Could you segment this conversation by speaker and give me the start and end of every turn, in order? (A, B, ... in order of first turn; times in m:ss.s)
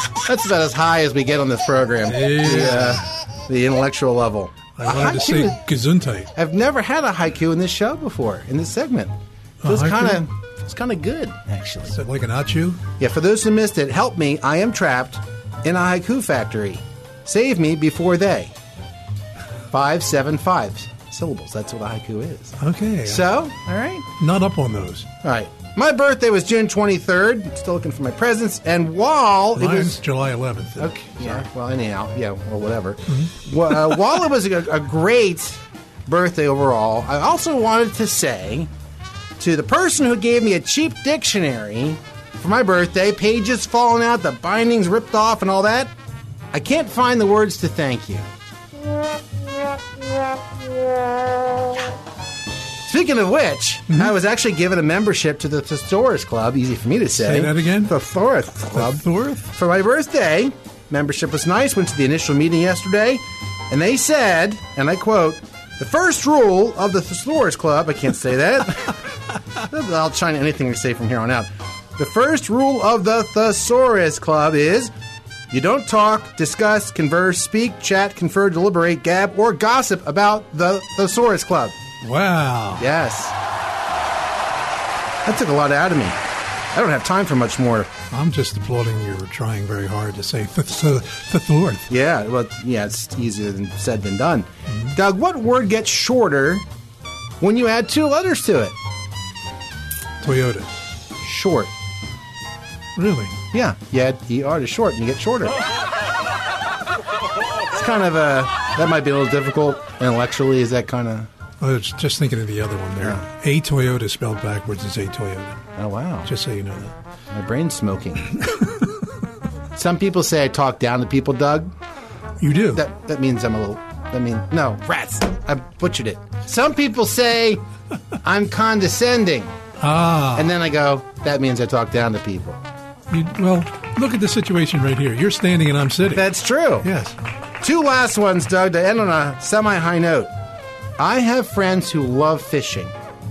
0:00.2-0:05.6 A
0:02.1-0:03.0 B
0:04.7-0:06.3 B
0:06.3-0:12.0 A
0:09.6-0:10.2 B
0:11.9-0:12.8 B
0:13.0-0:18.5 A
0:19.7-0:24.1 A
0:22.6-0:23.3 B
0:24.2-0:25.1 B
0:25.2-0:30.0 A
0:29.5-0:31.5 B
0:30.8-0:38.7 A
0:39.4-0:45.9 A
0:46.5-0:48.2 A
0:52.8-1:09.0 A
0:53.9-0:54.1 B
0:57.1-0:57.9 B
0:58.7-0:59.5 B
1:09.6-1:14.9 A
1:15.5-1:21.8 A
1:22.0-1:22.8 B
1:22.8-1:23.3 A
1:25.2-1:26.2 A
1:26.7-1:27.9 A
1:28.1-1:31.9 B
1:31.9-1:36.6 A
1:34.7-1:35.0 B
1:37.4-1:38.8 A
1:40.2-1:40.7 B
1:41.2-1:41.7 A
1:43.0-1:43.4 B
1:43.5-1:45.6 A
1:47.7-1:51.3 A
1:51.6-1:55.6 B
1:55.7-1:56.3 A
1:56.2-1:56.9 B
1:57.3-1:58.4 A
1:59.7-2:01.7 A
2:02.4-2:02.8 B
2:02.7-2:07.6 A
2:08.2-2:09.5 A
2:09.8-2:10.5 B
2:10.3-2:12.6 A
2:13.1-2:16.3 B
2:16.1-2:16.9 A
2:16.8-2:17.1 B
2:17.6-2:20.3 A
2:21.0-2:22.9 A